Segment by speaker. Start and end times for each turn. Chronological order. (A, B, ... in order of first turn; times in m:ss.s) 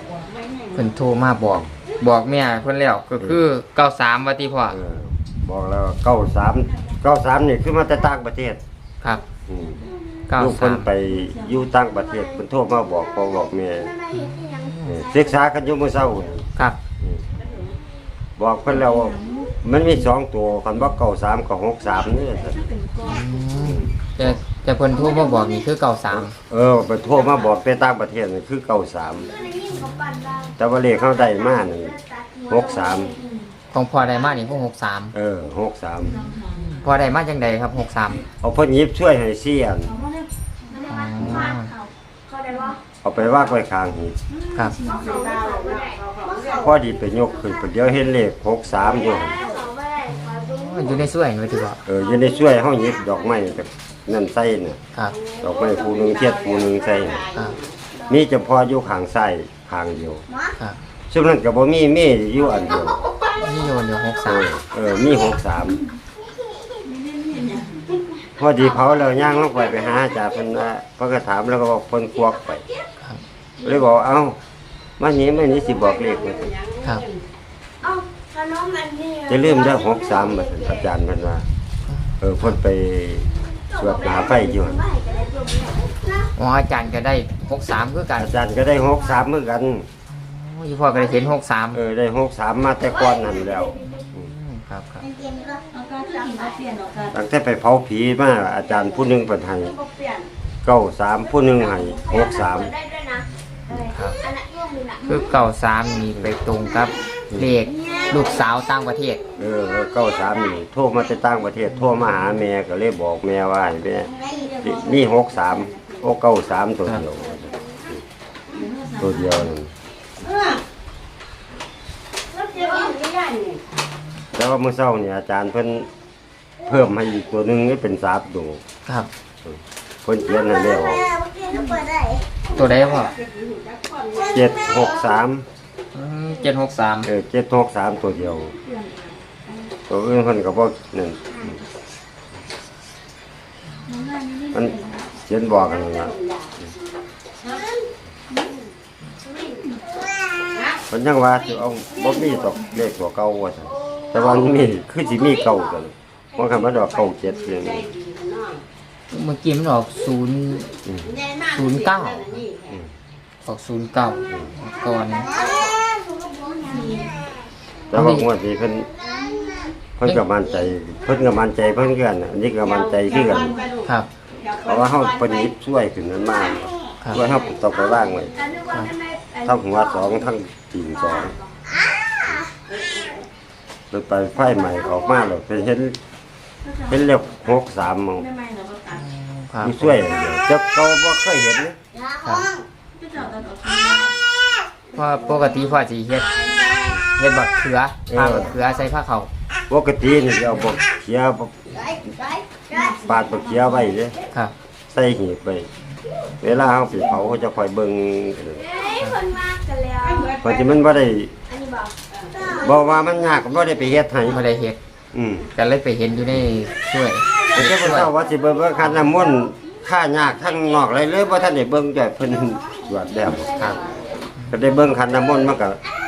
0:00.7-0:04.8 A
0:04.7-0:08.6 B
0:09.5-0:13.9 B
0:10.3-0:10.9 A
0:14.1-0:15.0 A
0:14.8-0:17.2 B
0:18.4-0:22.7 B
0:19.0-0:19.5 C
0:22.7-0:23.3 C
0:23.0-0:26.3 A
0:23.6-0:23.9 B
0:26.1-0:29.3 B
0:29.4-0:30.5 D
0:29.8-0:30.3 A
0:30.6-0:33.2 B
0:32.1-0:32.4 D
0:33.7-0:35.2 A
0:35.1-0:36.4 B
0:36.1-0:36.8 C
0:36.7-0:38.2 A
0:38.4-0:39.9 B
0:40.0-0:40.2 C
0:40.9-0:41.7 A
0:41.2-0:41.5 B
0:43.0-0:44.2 B
0:44.6-0:45.2 C
0:44.9-0:46.6 D
0:46.5-0:49.4 B
0:49.3-0:50.1 D
0:50.0-0:51.8 A
0:51.8-0:54.8 B
0:55.4-0:57.3 B
0:57.3-0:57.6 A
0:58.1-1:00.2 B
1:01.1-1:03.0 B
1:03.4-1:04.5 A
1:04.2-1:05.8 B
1:06.9-1:07.8 C
1:08.4-1:12.6 B
1:13.6-1:14.4 B
1:15.0-1:16.6 B
1:18.0-1:19.2 D
1:19.2-1:21.4 B
1:21.9-1:22.5 A
1:22.2-1:24.8 B
1:24.7-1:26.1 D
1:26.3-1:28.4 A
1:28.2-1:29.9 B
1:30.1-1:31.8 A
1:31.7-1:34.3 B
1:33.8-1:35.1 A
1:35.2-1:35.6 D
1:35.8-1:37.0 C
1:37.1-1:39.8 B
1:40.6-1:42.7 B
1:43.2-1:44.2 A
1:44.3-1:45.0 D
1:45.0-1:49.2 A
1:49.4-1:58.0 B
1:58.6-1:59.0 C
1:59.0-1:59.7 B
2:02.5-2:03.2 D
2:04.3-2:05.9 B
2:06.6-2:08.6 B
2:09.4-2:11.2 B
2:11.1-2:12.4 D
2:12.5-2:13.1 A
2:14.0-2:14.2 D
2:14.3-2:15.4 B
2:15.9-2:17.1 A
2:17.0-2:18.5 B
2:19.9-2:21.6 B
2:23.9-2:25.1 C
2:24.5-2:26.1 B
2:30.9-2:37.9 B
2:39.1-2:40.7 A
2:40.8-2:41.2 B
2:41.5-2:42.5 A
2:43.4-2:45.3 A
2:45.2-2:47.1 D
2:46.8-2:47.1 C
2:47.9-2:48.9 B
2:47.9-2:48.3 A
2:49.2-2:49.7 D
2:50.0-2:53.6 B
2:54.5-2:58.4 B
2:58.4-2:59.4 D
2:59.4-3:01.4 B
3:03.9-3:06.0 B
3:06.9-3:08.3 B
3:08.3-3:08.9 C
3:08.9-3:10.0 A
3:09.6-3:11.8 B
3:12.1-3:12.5 D
3:12.2-3:12.5 A
3:13.0-3:14.1 C
3:14.9-3:16.4 A
3:17.0-3:19.3 A
3:18.1-3:18.6 B
3:19.7-3:22.0 B
3:22.4-3:22.9 D
3:23.0-3:24.2 B
3:24.9-3:25.7 B
3:26.4-3:28.8 B
3:29.0-3:29.3 A
3:29.4-3:30.4 D
3:30.4-3:31.3 B
3:31.7-3:32.6 D
3:32.5-3:34.4 B
3:34.3-3:34.8 A
3:35.1-3:35.5 B
3:35.5-3:38.1 A
3:37.5-3:43.8 B
3:43.6-3:43.8 A
3:44.5-3:45.8 B